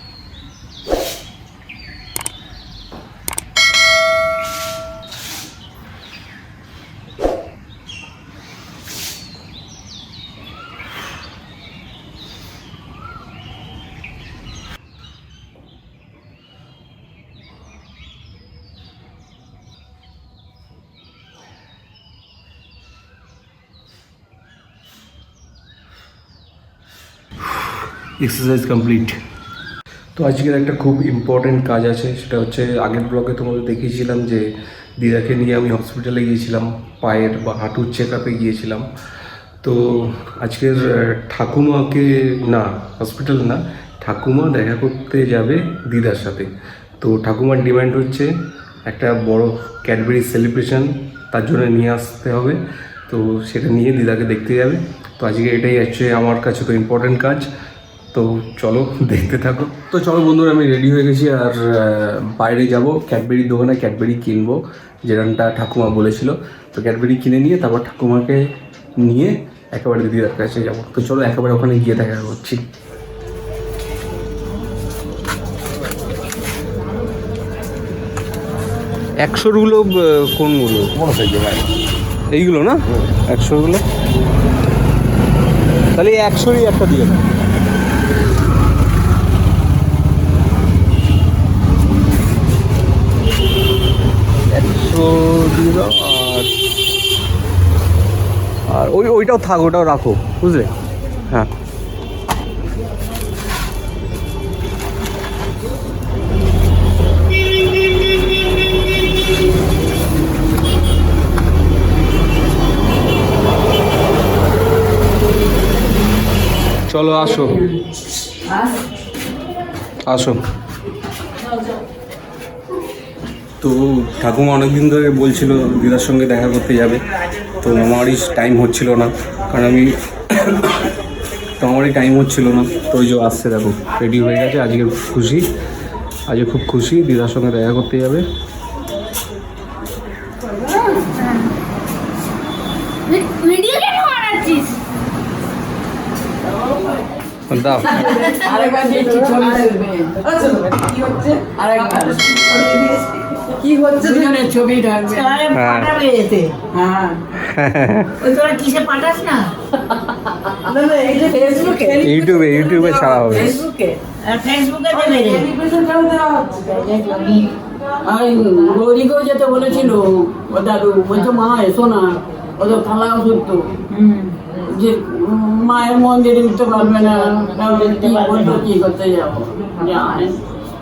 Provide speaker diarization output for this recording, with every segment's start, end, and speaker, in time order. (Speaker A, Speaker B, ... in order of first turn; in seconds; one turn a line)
Speaker A: 27.6-29.2
Speaker A: 30.2-34.4
Speaker A: 35.0-38.9
Speaker A: 39.6-48.3
Speaker A: 48.9-57.5
Speaker A: 58.1-68.5
Speaker A: 69.0-72.7
Speaker A: 79.2-81.7
Speaker A: 82.3-83.8
Speaker A: 86.0-87.3
Speaker A: 94.5-96.5
Speaker A: 98.7-100.7
Speaker A: 116.9-117.7
Speaker A: 120.1-120.4
Speaker A: 123.6-127.0
Speaker A: 127.6-130.7
Speaker A: 131.6-135.4
Speaker A: 136.3-138.2
Speaker B: 140.9-141.5
Speaker B: 143.1-144.7
Speaker A: 147.5-148.1
Speaker C: 147.9-152.9
Speaker B: 148.0-148.5
Speaker C: 153.4-155.4
Speaker B: 155.1-156.6
Speaker A: 155.5-155.9
Speaker C: 156.7-157.2
Speaker A: 157.4-158.2
Speaker B: 158.2-159.6
Speaker B: 160.5-162.0
Speaker C: 160.7-164.0
Speaker A: 162.0-163.6
Speaker B: 164.0-165.6
Speaker C: 165.7-166.4
Speaker B: 166.4-167.5
Speaker C: 168.0-173.8
Speaker B: 173.9-174.5
Speaker C: 174.7-180.4
Speaker B: 176.7-178.7